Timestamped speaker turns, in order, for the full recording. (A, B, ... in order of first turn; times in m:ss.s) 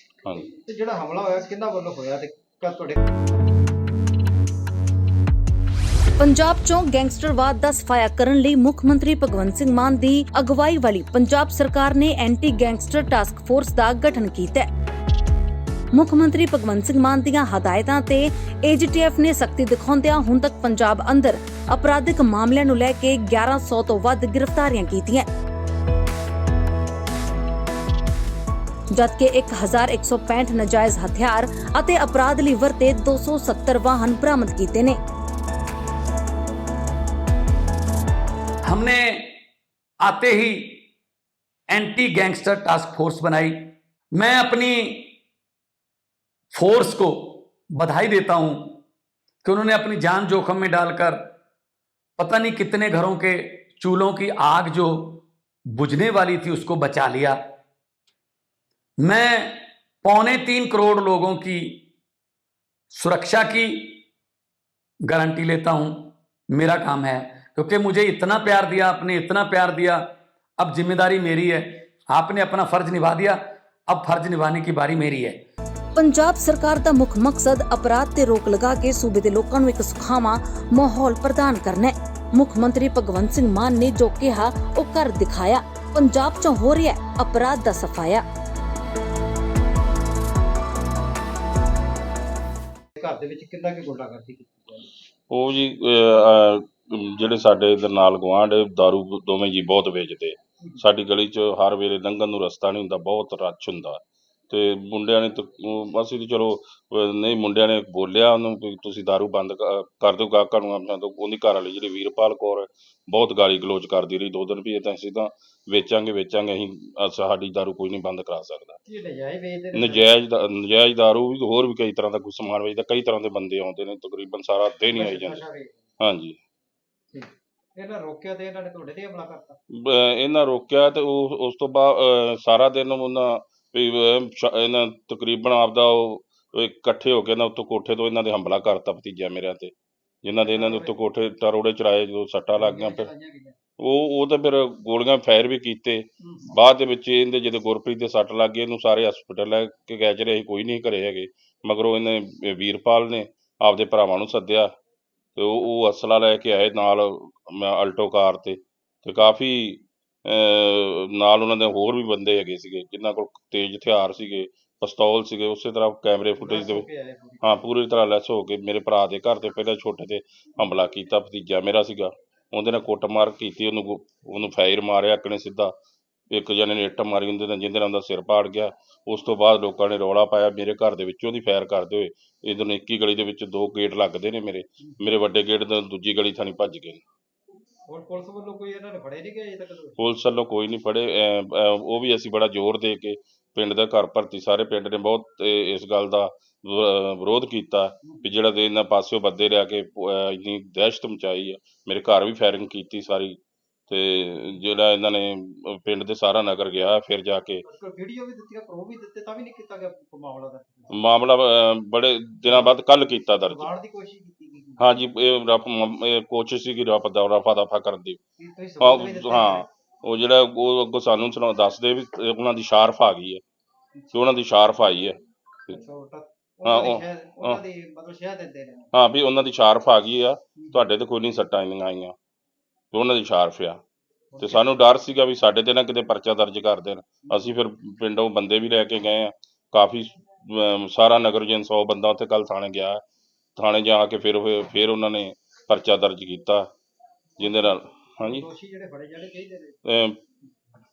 0:00.5-0:03.0 A
0:06.2-0:14.7 B
0:15.9-0:25.3 B
0:28.9-0:35.0 B
0:38.7-0:39.3 C
0:40.0-0:40.8 C
0:41.7-0:45.1 C
0:46.5-0:48.8 C
0:49.4-0:51.2 C
0:52.2-0:57.4 C
0:59.0-1:01.8 C
1:02.9-1:04.0 C
1:05.1-1:10.0 C
1:10.6-1:15.4 C
1:15.9-1:28.2 B
1:33.0-1:34.9 A
1:35.3-1:58.8 D
1:58.9-2:00.1 A
1:59.7-2:05.4 D
2:04.9-2:05.8 A
2:06.0-2:06.4 D
2:07.1-2:09.6 A
2:09.7-2:19.7 D
2:20.2-2:23.1 D
2:20.4-2:21.0 A
2:22.6-2:23.6 A
2:23.8-2:34.7 D
2:35.4-2:46.9 D
2:46.4-2:47.5 A
2:47.4-2:55.7 D
2:56.3-3:07.0 D
3:07.9-3:10.0 A
3:10.0-3:23.4 D
3:23.9-3:27.6 D
3:27.7-3:31.1 A
3:30.9-3:33.7 D
3:32.4-3:32.8 A
3:33.4-3:35.0 A
3:34.8-3:38.2 D
3:38.4-3:39.7 A
3:38.8-3:43.4 D
3:44.0-3:44.2 A
3:44.1-3:45.2 D
3:45.7-3:48.9 A
3:46.6-3:47.6 D
3:48.9-3:52.1 D
3:50.6-3:50.9 A
3:52.9-3:53.8 D
3:54.3-3:54.8 A
3:54.4-4:03.0 D
4:03.6-4:06.7 D
4:07.4-4:08.5 D
4:07.4-4:09.8 A
4:09.9-4:10.2 D